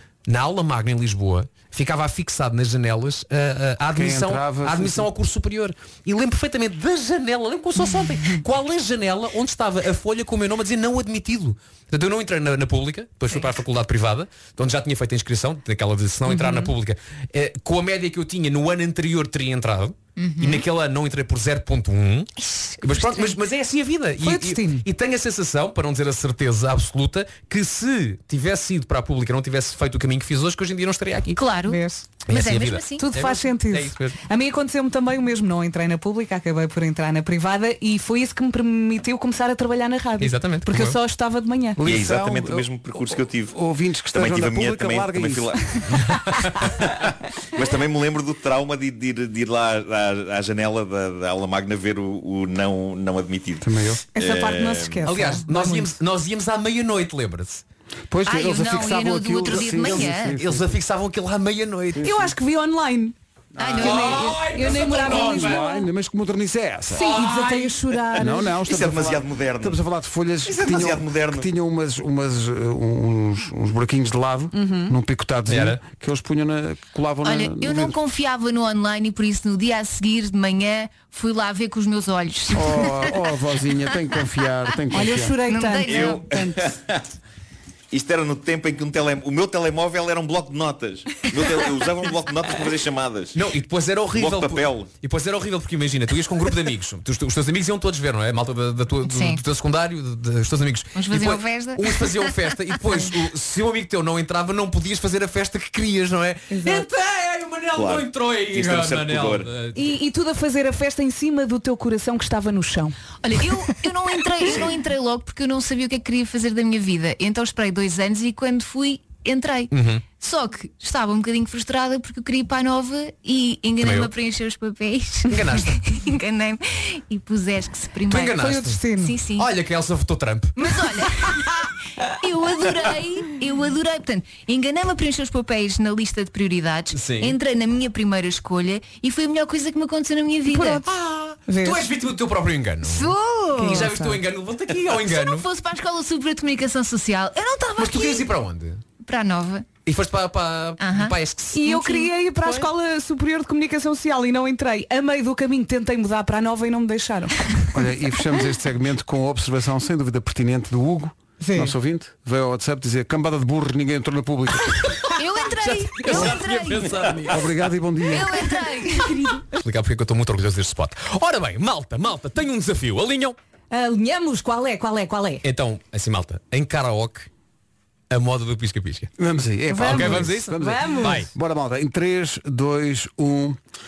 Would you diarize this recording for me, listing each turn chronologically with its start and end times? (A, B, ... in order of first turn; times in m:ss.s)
0:00.3-0:31.4 A
0:03.9-0:05.1 B
0:16.3-0:16.7 C
0:20.2-0:20.6 D
0:22.4-0:23.4 D
0:24.2-0:24.8 C
0:31.3-0:33.1 D
0:31.7-0:32.2 C
0:32.3-0:34.2 A
0:33.0-0:41.8 C
0:40.2-0:41.0 A
0:41.8-0:45.8 B
0:41.8-0:43.6 E
0:44.1-0:45.8 E
0:46.8-0:55.1 E
0:53.6-0:54.0 B
0:54.1-0:55.9 C
0:55.0-0:57.6 A
0:58.1-1:00.7 B
0:58.3-1:00.4 D
0:59.4-1:02.1 A
1:02.0-1:02.3 B
1:02.0-1:03.1 C
1:03.6-1:04.1 B
1:03.6-1:04.4 D
1:03.8-1:05.7 A
1:03.8-1:05.9 C
1:05.1-1:07.1 B
1:06.9-1:08.6 C
1:07.0-1:07.9 A
1:08.1-1:18.0 B
1:08.6-1:09.8 E
1:10.4-1:11.5 E
1:14.5-1:14.9 C
1:15.5-1:15.8 A
1:17.2-1:23.1 D
1:22.5-1:25.3 B
1:24.9-1:26.7 C
1:25.4-1:26.2 D
1:25.9-1:27.0 E
1:27.9-1:33.4 E
1:33.3-1:49.9 A
1:34.1-1:34.9 E
1:39.0-1:39.4 D
1:41.0-1:42.3 D
1:46.5-1:46.9 C
1:47.7-1:49.5 E
1:49.7-1:53.0 C
1:53.2-2:08.3 D
1:59.7-2:00.0 A
2:03.8-2:04.1 A
2:05.3-2:05.8 A
2:08.1-2:08.8 A
2:08.1-2:09.1 C
2:09.0-2:09.5 D
2:09.4-2:10.8 A
2:10.6-2:11.4 D
2:12.2-2:20.8 D
2:16.9-2:17.3 A
2:20.5-2:20.8 C
2:20.9-2:25.4 A
2:21.5-2:21.8 C
2:22.8-2:23.9 D
2:23.6-2:24.2 C
2:24.9-2:28.3 D
2:27.8-2:28.8 A
2:29.0-2:29.7 D
2:29.8-2:31.7 A
2:30.8-2:31.1 D
2:31.5-2:37.6 C
2:31.7-2:32.1 D
2:37.7-2:44.8 B
2:41.4-2:41.7 C
2:45.2-2:47.1 D
2:45.6-2:47.4 A
2:47.3-2:48.4 B
2:48.1-2:49.2 D
2:49.0-2:49.5 C
2:49.6-2:53.4 A
2:53.7-2:55.4 C
2:55.4-2:57.3 A
2:58.1-2:59.1 A
2:59.2-3:03.6 B
2:59.7-3:01.2 C
2:59.8-3:01.3 A